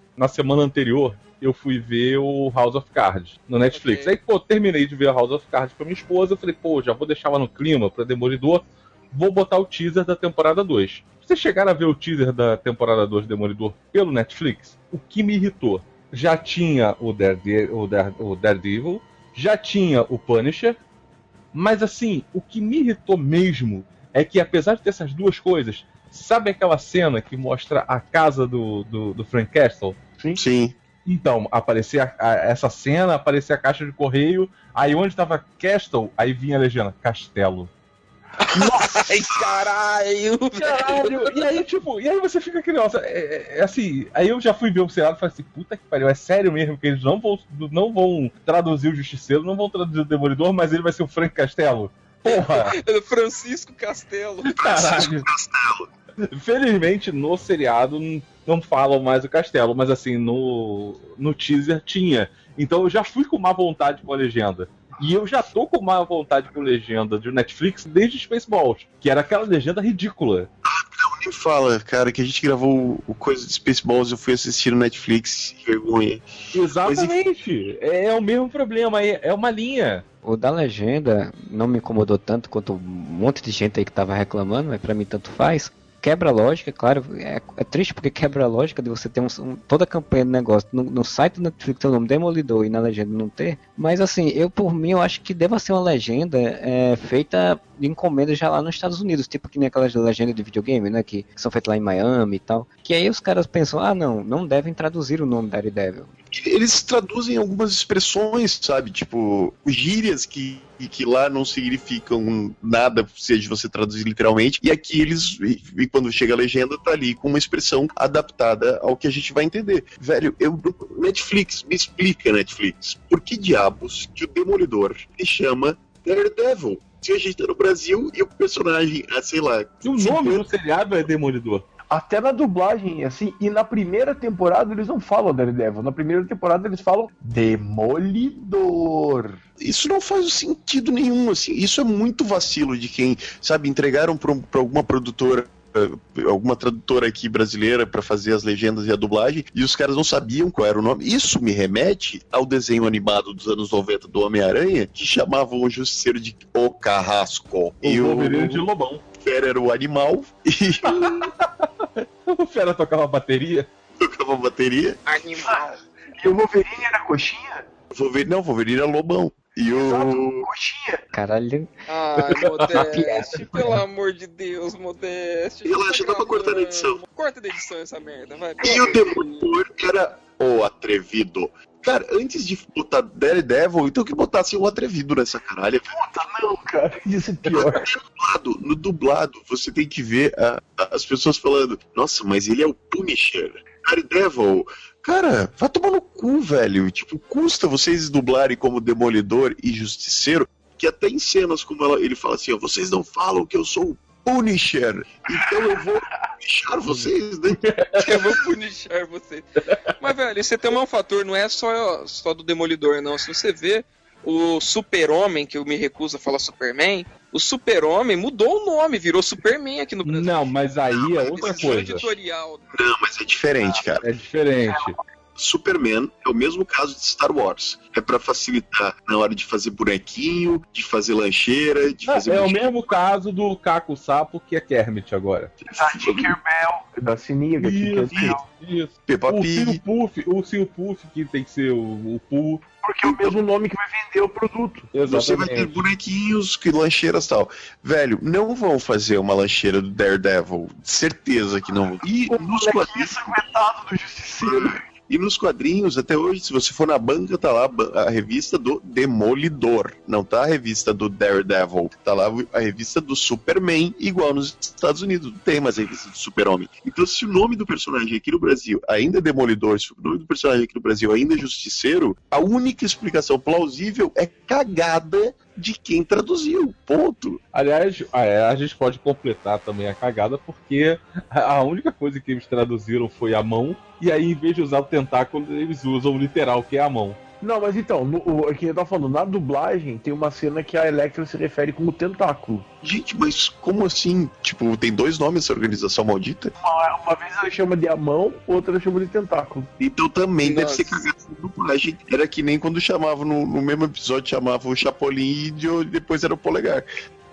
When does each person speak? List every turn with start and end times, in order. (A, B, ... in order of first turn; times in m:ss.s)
0:00.2-0:20.8 A
0:03.7-0:04.1 B
0:21.5-0:30.0 A
0:30.4-0:30.8 C
0:31.1-0:37.7 A
0:38.4-0:41.5 B
0:38.5-0:39.0 D
0:40.6-0:52.8 A
0:52.3-0:55.0 B
0:54.4-0:55.3 A
0:54.6-0:55.9 C
0:56.3-1:10.5 A
1:10.6-1:16.3 C
1:16.5-1:20.0 A
1:16.8-1:17.2 C
1:20.2-1:46.1 E
1:46.3-2:10.5 C
2:09.8-2:11.6 A
2:11.9-2:19.4 D
2:19.6-2:38.6 C
2:37.8-2:39.0 A
2:39.2-2:41.3 C
2:40.8-2:43.7 A
2:44.0-2:45.0 C
2:45.1-2:45.8 B
2:46.2-2:47.7 D
2:47.9-2:50.5 C
2:49.7-2:51.0 D
2:51.1-2:51.8 E
2:51.9-2:58.9 B
2:52.3-2:52.9 A
2:52.7-2:53.8 E
2:55.6-2:57.0 C
2:58.6-3:06.0 C
2:58.6-2:59.0 D
3:05.9-3:07.9 D
3:07.5-3:27.7 C
3:27.6-3:28.4 A
3:28.0-3:29.4 B
3:30.0-3:40.3 B
3:40.0-3:42.0 A
3:41.2-3:42.6 B
3:41.2-3:42.1 C
3:42.7-3:44.1 C
3:44.0-3:45.0 A
3:44.7-3:45.0 D
3:45.4-3:52.7 C
3:52.1-3:55.6 A
3:55.6-3:56.3 C
3:55.7-3:58.4 D
3:57.6-4:02.6 A
3:59.1-3:59.8 C
4:02.8-4:04.9 D
4:03.0-4:03.4 C
4:04.9-4:05.8 A
4:05.1-4:13.4 C
4:12.0-4:14.8 D
4:14.4-4:37.4 C
4:37.5-4:47.2 A
4:47.4-4:52.7 D
4:52.8-4:56.5 C
4:56.6-4:59.7 D
4:59.8-5:07.0 C
5:00.4-5:01.0 B